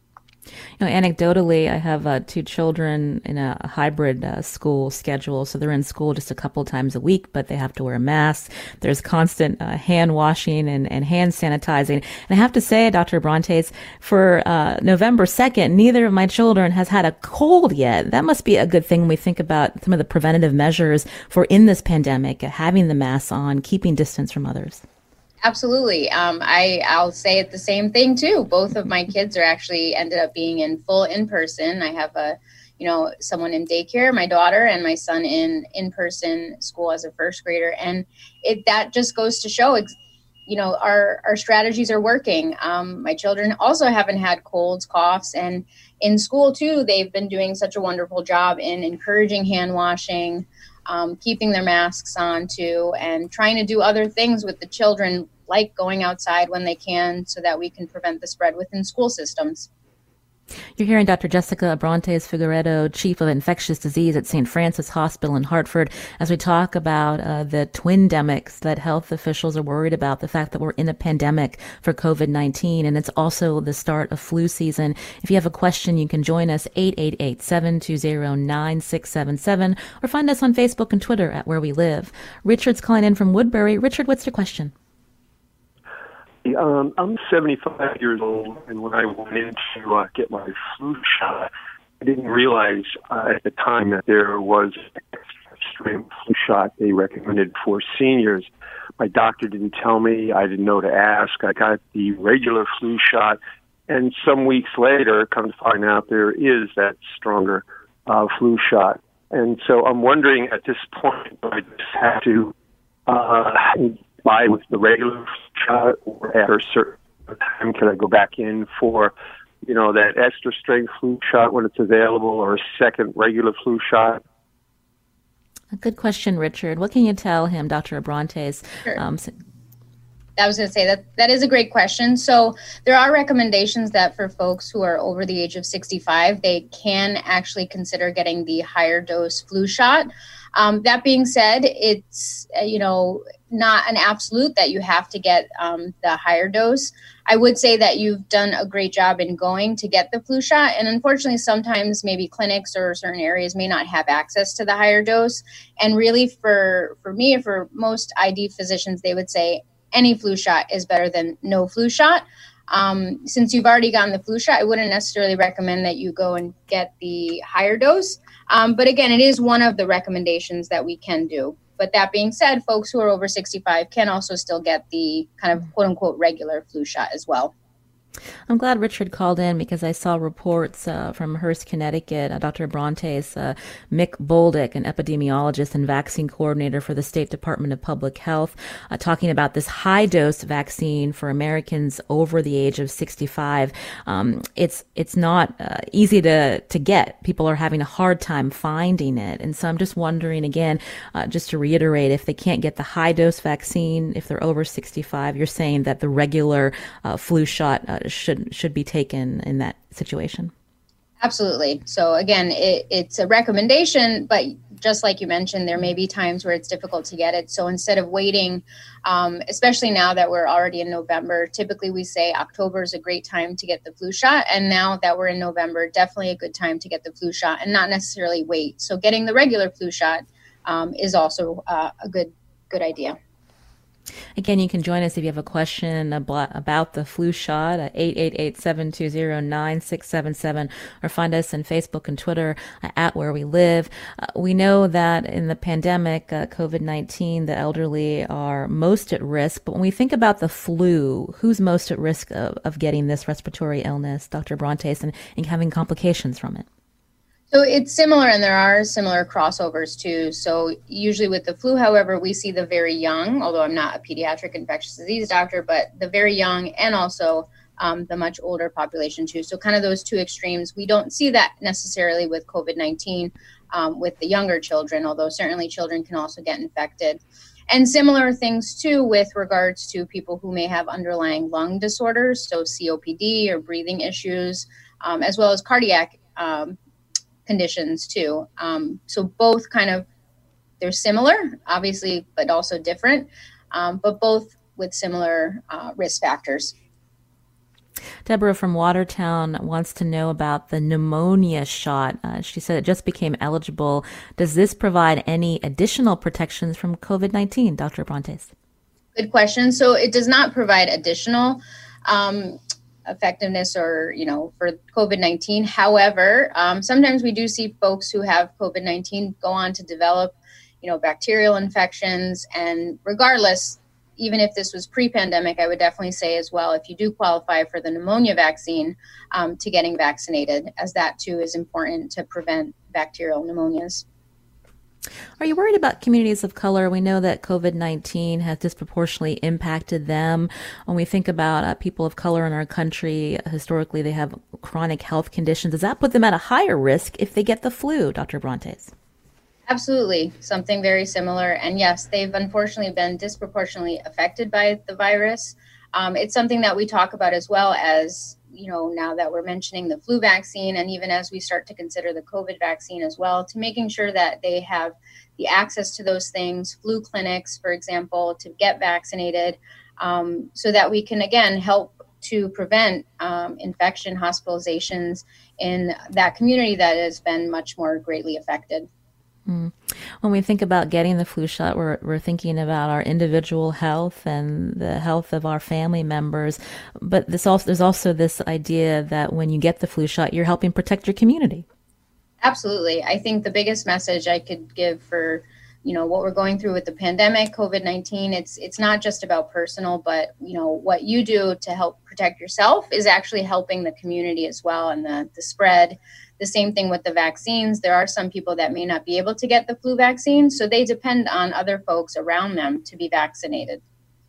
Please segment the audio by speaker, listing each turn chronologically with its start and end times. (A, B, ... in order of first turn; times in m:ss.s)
0:00.8-0:24.8 A
0:25.4-0:39.9 B
0:40.5-0:59.7 B
1:00.8-1:24.7 A
1:26.4-1:38.5 C
1:39.0-1:52.5 C
1:53.1-2:04.2 C
2:05.7-2:09.3 A
2:10.4-2:57.5 B
2:58.5-3:30.5 A
3:31.2-3:53.2 B
3:54.4-4:16.6 A
4:17.5-4:46.8 B
4:47.4-4:50.1 B
4:50.8-4:56.7 B
4:58.2-5:08.5 A
5:09.1-5:34.0 B
5:35.4-5:48.9 A
5:49.7-6:18.9 B
6:19.5-6:31.6 A
6:32.4-6:53.8 B